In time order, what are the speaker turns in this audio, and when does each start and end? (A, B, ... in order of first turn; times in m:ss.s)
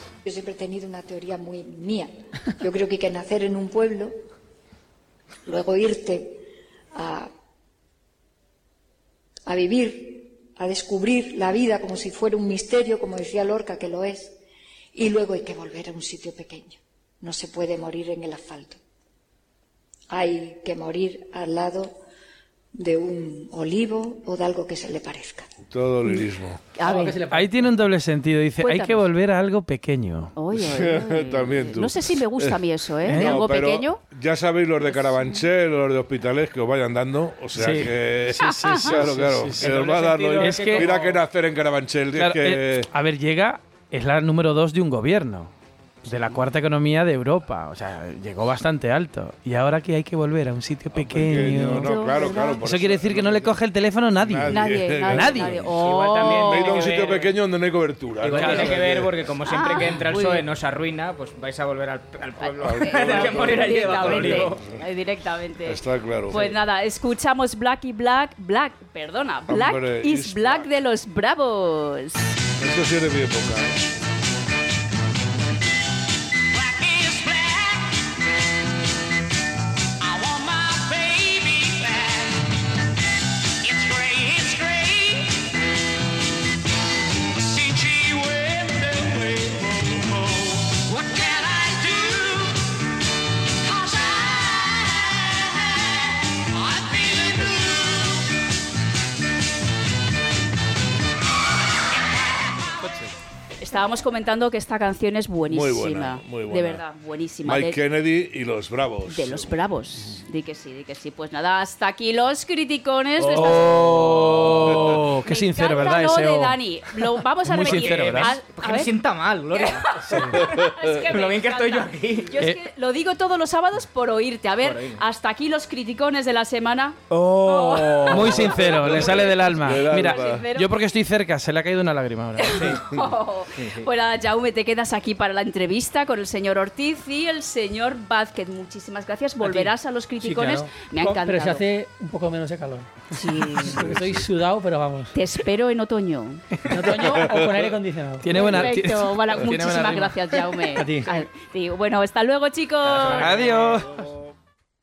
0:00.2-0:04.1 A
0:05.4-0:06.4 A
0:06.9-0:07.3 A
0:09.4-0:14.3 A
0:14.9-0:18.8 A
0:20.1-0:21.9 A
0:22.8-0:25.4 A
0:25.7-0:26.6 B
0:26.0-0:27.2 C
0:26.8-0:27.6 D
0:27.3-0:30.3 E
0:28.6-0:29.1 C
0:30.4-0:34.0 C
0:30.5-0:42.9 B
0:33.0-0:33.4 E
0:34.8-0:35.4 C
0:37.6-0:39.7 E
0:38.4-0:39.0 C
0:39.6-0:41.2 F
0:40.4-0:40.9 E
0:42.2-0:45.5 E
0:46.0-0:55.7 E
0:50.9-0:53.6 B
0:51.4-0:52.6 C
0:54.2-0:55.6 B
0:54.5-0:56.9 C
0:55.7-0:57.3 F
0:56.2-0:59.2 B
0:58.2-1:04.6 F
0:58.3-0:58.8 E
0:59.4-1:00.4 C
1:02.4-1:12.3 C
1:02.4-1:04.8 B
1:05.6-1:06.4 B
1:06.3-1:06.6 F
1:09.5-1:10.7 B
1:12.6-1:13.8 B
1:16.7-1:17.6 G
1:20.2-1:21.9 G
1:23.7-1:25.2 G
1:30.9-1:32.2 G
1:37.1-1:37.5 G
1:43.6-1:47.8 C
1:45.5-1:46.8 B
1:47.4-1:49.5 B
1:49.0-1:53.7 C
1:53.2-1:54.5 F
1:53.3-1:56.6 E
1:54.5-1:58.9 C
1:57.4-1:58.4 E
1:57.5-2:02.3 F
1:59.5-2:10.7 C
2:00.1-2:00.4 E
2:04.6-2:05.0 F
2:07.1-2:12.7 E
2:08.8-2:10.4 B
2:12.4-2:21.6 C
2:12.5-2:12.8 F
2:13.6-2:13.9 F
2:20.2-2:25.2 D
2:23.1-2:23.9 C
2:23.8-2:24.2 B
2:25.1-2:26.4 C
2:26.7-2:28.3 D
2:28.2-2:30.2 E
2:28.3-2:33.5 C
2:30.7-2:31.2 D
2:32.8-2:33.7 F
2:33.1-2:34.0 E